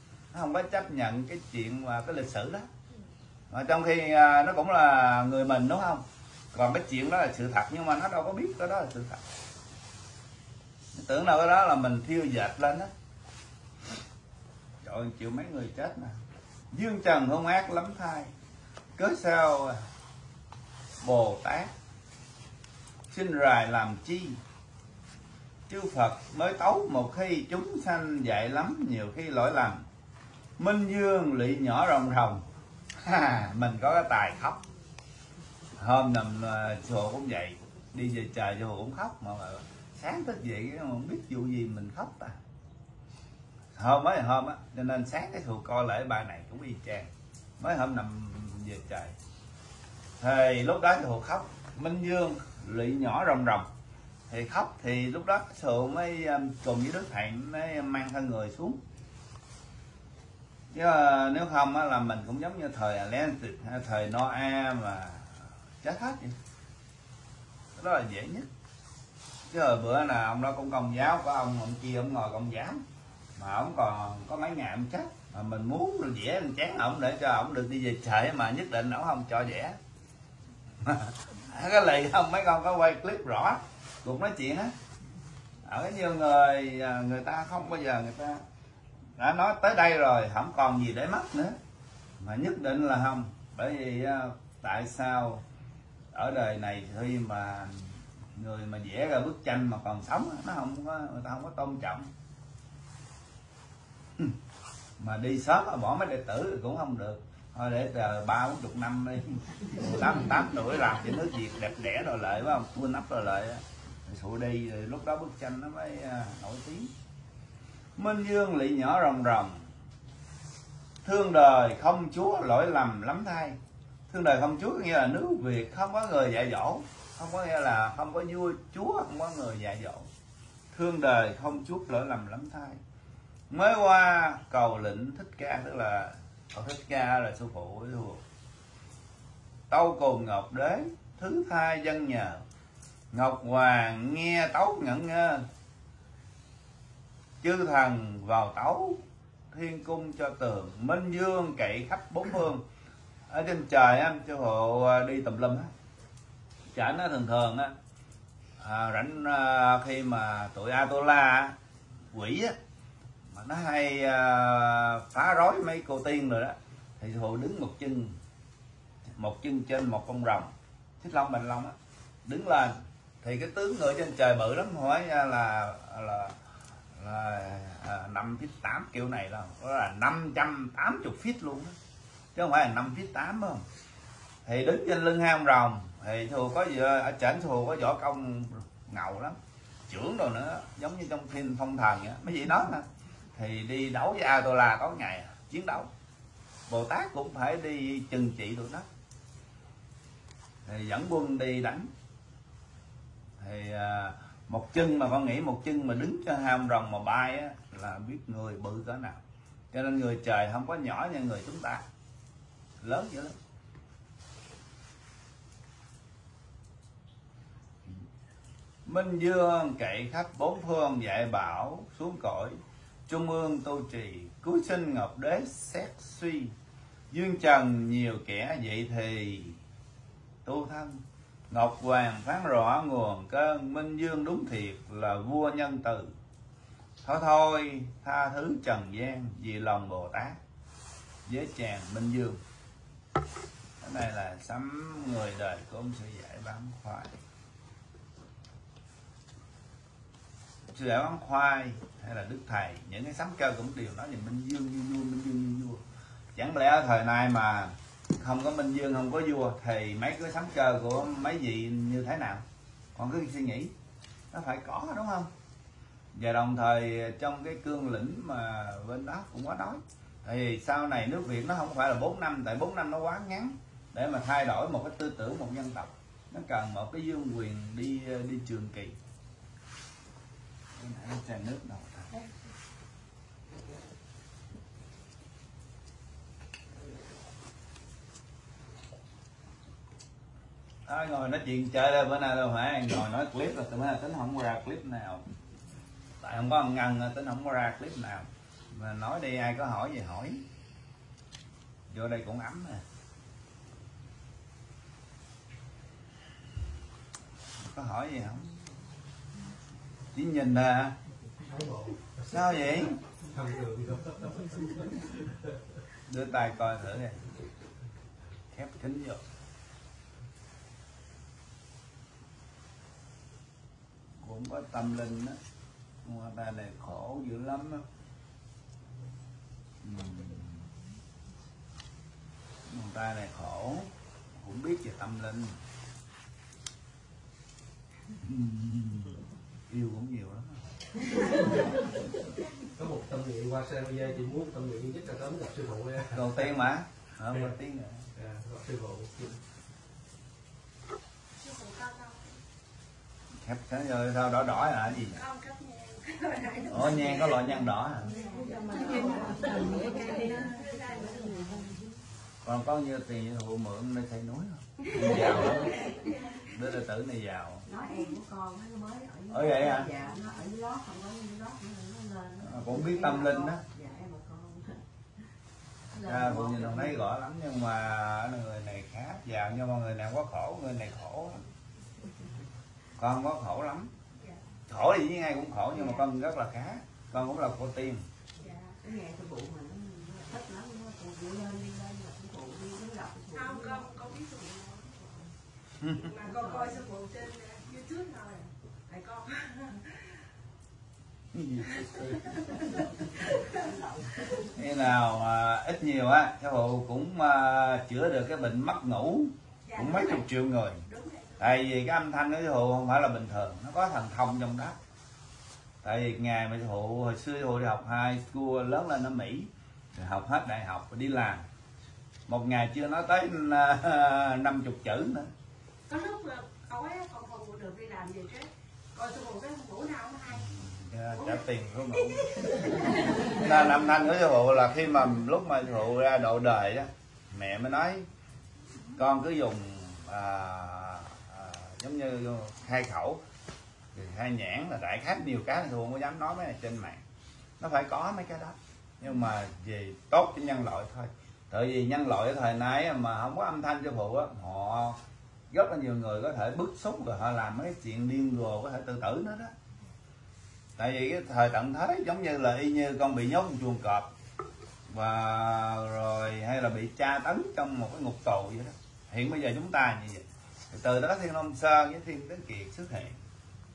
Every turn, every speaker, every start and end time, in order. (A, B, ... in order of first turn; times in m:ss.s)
0:00.3-0:02.7 A
0:03.5-0:09.2 A
0:11.0-0:12.9 A
0:14.8-0:16.1 A
0:16.7-0:18.3 A
0:19.0-0:19.8 A
0:21.0-0:21.7 A
0:23.1-0:24.4 A
0:25.7-0:29.8 A
0:30.6-0:32.4 A
0:33.0-0:34.6 A
0:35.8-0:42.4 A
0:43.8-0:49.2 A
0:50.2-0:53.7 A
0:54.3-0:58.8 A
1:00.7-1:06.4 A
1:07.8-1:08.5 A
1:09.5-1:12.8 A
1:13.4-1:19.8 A
1:20.8-1:24.7 A
1:25.6-1:28.4 A
1:29.2-1:31.6 A
1:32.2-1:35.4 A
1:36.1-1:42.1 A
1:45.0-1:56.9 A
1:58.0-1:59.6 A
2:01.0-2:03.6 A
2:04.1-2:10.1 A
2:10.7-2:12.8 A
2:13.5-2:18.2 A
2:19.7-2:22.4 A
2:23.1-2:25.5 A
2:27.4-2:29.0 A
2:29.5-2:32.6 A
2:33.3-2:35.7 A
2:36.7-2:37.7 A
2:38.6-2:41.6 A
2:42.1-2:42.6 A
2:43.3-2:48.2 A
2:49.2-2:56.3 A
2:57.0-3:01.8 A
3:02.4-3:03.6 A
3:04.4-3:09.4 A
3:09.9-3:15.9 A
3:16.7-3:18.9 A
3:20.6-3:21.9 A
3:23.4-3:29.2 A
3:29.7-3:31.8 A
3:32.8-3:33.4 A
3:38.9-3:46.5 A
3:47.1-3:49.6 A
3:50.4-3:56.1 A
3:57.0-4:00.4 A
4:01.2-4:02.4 A
4:03.8-4:07.1 A
4:10.7-4:15.8 A
4:16.4-4:22.4 A
4:23.0-4:23.7 A
4:24.3-4:25.3 A
4:26.1-4:39.0 A
4:40.8-4:42.1 A
4:50.9-4:55.2 A
4:56.2-5:00.4 A
5:01.9-5:02.8 A
5:07.6-5:08.5 A
5:10.1-5:11.0 A
5:11.4-5:15.6 B
5:12.3-5:13.0 A
5:16.1-5:17.2 A
5:18.5-5:19.2 A
5:24.2-5:25.4 A
5:26.0-5:27.8 A
5:29.8-5:30.7 A
5:32.7-5:35.6 A
5:38.2-5:40.6 A
5:42.7-5:46.6 B
5:46.1-5:48.0 A
5:48.1-5:49.4 B
5:51.4-5:52.4 C
5:53.4-5:55.2 A
5:54.9-5:57.4 C
5:56.7-5:58.1 A
5:58.0-6:01.8 D
5:58.2-5:59.3 C
6:00.0-6:01.4 C
6:02.4-6:05.8 A
6:05.0-6:06.1 D
6:05.2-6:06.5 C
6:06.5-6:07.6 A
6:07.6-6:14.8 D
6:09.3-6:09.9 A
6:12.4-6:13.6 A
6:15.9-6:17.1 D
6:16.0-6:21.4 A
6:23.0-6:23.9 A
6:24.7-6:28.1 A
6:28.4-6:28.8 C
6:28.8-6:33.9 D
6:33.3-6:35.2 C
6:35.8-6:36.1 A
6:36.0-6:40.2 C
6:36.2-6:36.8 D
6:41.3-6:42.4 A
6:41.8-6:43.7 C
6:43.5-6:44.0 D
6:44.6-6:50.8 A
6:49.6-6:50.3 C
6:50.9-6:51.6 C
6:51.4-6:54.8 A
6:55.8-7:01.4 A
7:02.3-7:05.3 A
7:05.9-7:10.5 C
7:10.4-7:12.2 A
7:11.1-7:14.0 C
7:13.3-7:18.1 A
7:19.0-7:23.2 A
7:23.9-7:27.0 A
7:27.6-7:35.0 A
7:35.5-7:39.5 A
7:40.8-7:44.1 A
7:44.9-7:53.2 A